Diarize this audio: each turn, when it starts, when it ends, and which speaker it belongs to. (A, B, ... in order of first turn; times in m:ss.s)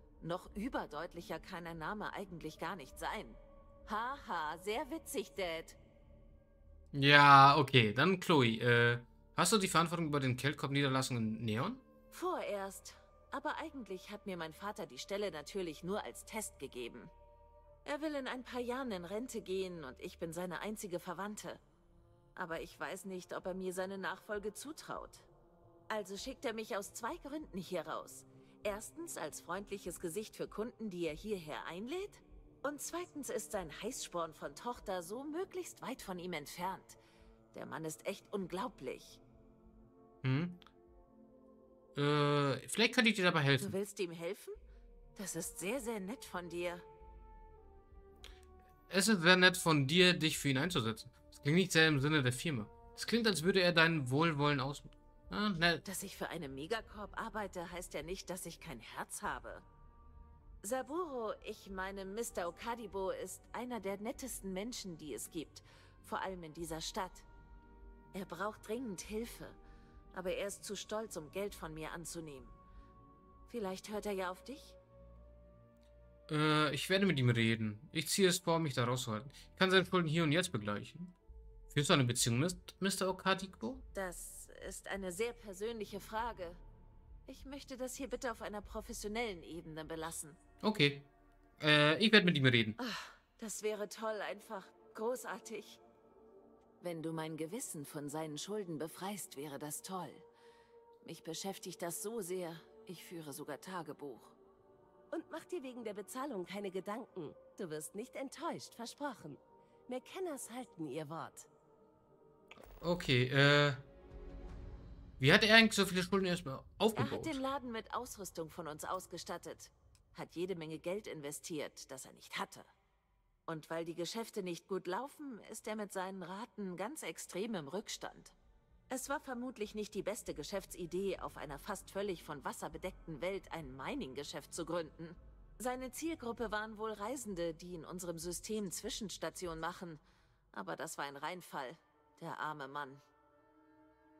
0:00.2-0:05.8 A
0:06.9-0:11.8 B
0:12.1-0:17.1 A
0:17.8-0:21.6 A
0:22.4-0:25.3 A
0:25.9-0:37.0 A
0:37.5-0:39.2 A
0:40.2-0:40.6 B
0:41.9-0:43.7 B
0:43.6-0:44.6 A
0:45.2-0:46.8 A
0:48.9-0:55.8 B
0:55.8-0:59.6 A
1:00.6-1:07.3 A
1:08.1-1:09.6 A
1:10.1-1:12.5 A
1:13.5-1:14.8 A
1:16.3-1:21.1 B
1:21.7-1:23.8 B
1:23.9-1:26.6 A
1:27.3-1:30.4 A
1:30.6-1:31.1 B
1:31.6-1:32.8 B
1:32.8-1:35.8 A
1:36.8-1:40.2 A
1:41.0-1:44.3 A
1:45.1-1:51.5 C
1:52.8-1:53.8 B
1:55.2-1:57.4 B
1:56.9-2:02.7 A
2:03.5-2:08.3 A
2:08.9-2:20.0 A
2:20.5-2:23.0 A